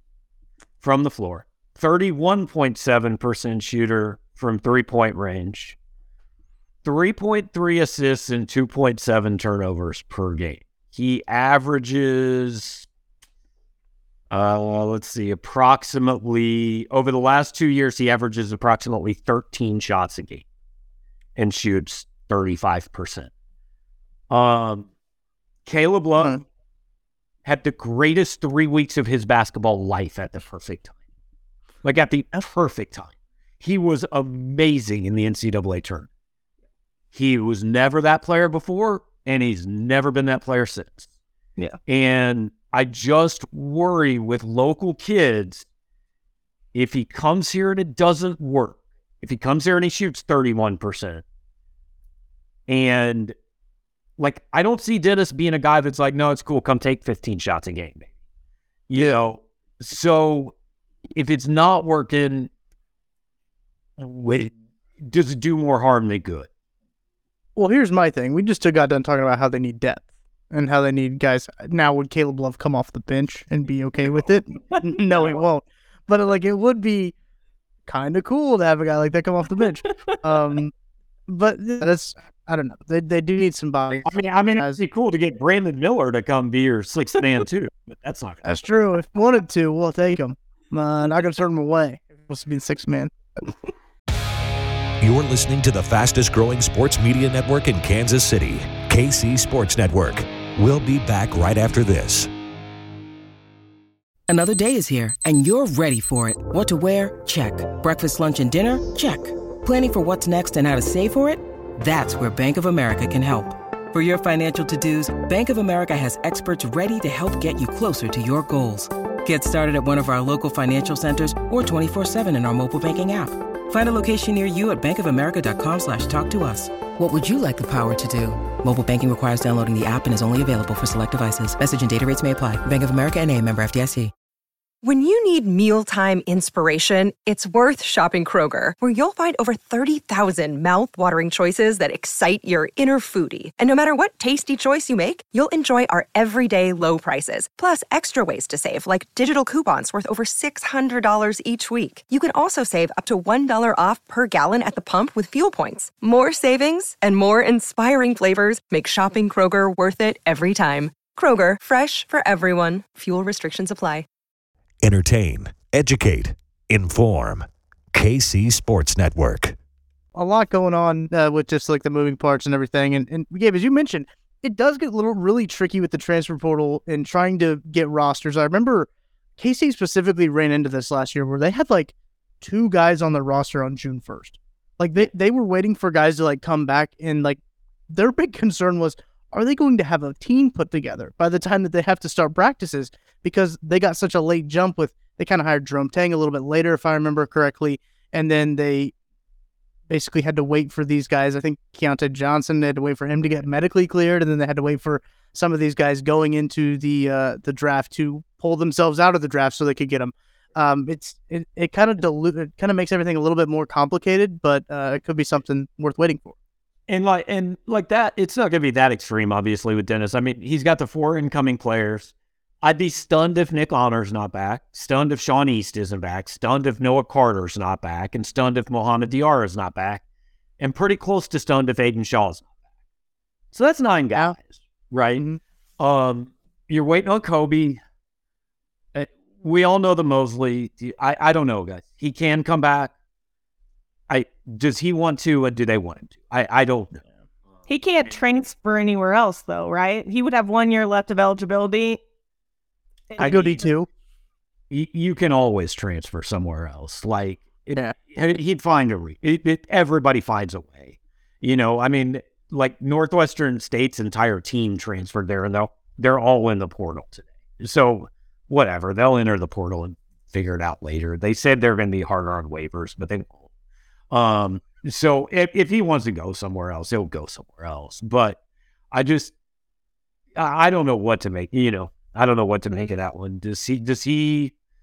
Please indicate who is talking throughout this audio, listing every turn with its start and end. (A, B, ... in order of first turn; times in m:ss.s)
0:00.8-0:05.8 A
0:06.8-0:12.8 A
0:14.3-0:20.4 A
0:21.4-0:23.3 A
0:24.3-0:24.9 A
0:25.6-0:26.4 A
0:27.4-0:31.0 A
0:31.8-0:36.1 A
0:37.1-0:41.1 A
0:41.9-0:45.6 A
0:46.7-0:51.2 A
0:52.7-0:53.3 A
0:54.2-0:58.1 A
0:58.9-1:00.5 A
1:01.2-1:02.5 A
1:04.0-1:06.5 A
1:07.6-1:17.1 B
1:17.8-1:20.7 B
1:21.3-1:24.8 B
1:24.0-1:28.4 A
1:28.4-1:33.5 B
1:35.0-1:42.3 C
1:44.3-2:14.1 D
2:14.8-2:44.0 E
2:44.8-2:49.5 C
2:50.1-3:18.9 B
3:19.9-3:36.3 B
3:36.9-3:50.0 A
3:50.6-3:52.5 A
3:53.5-3:55.2 A
3:55.8-3:57.8 A
3:58.9-4:02.9 A
4:04.1-4:07.0 A
4:07.7-4:12.0 F
4:13.1-4:13.7 F
4:13.2-4:13.9 B
4:14.7-4:33.4 A
4:34.1-4:38.4 A
4:38.9-4:39.3 A
4:40.4-4:44.5 A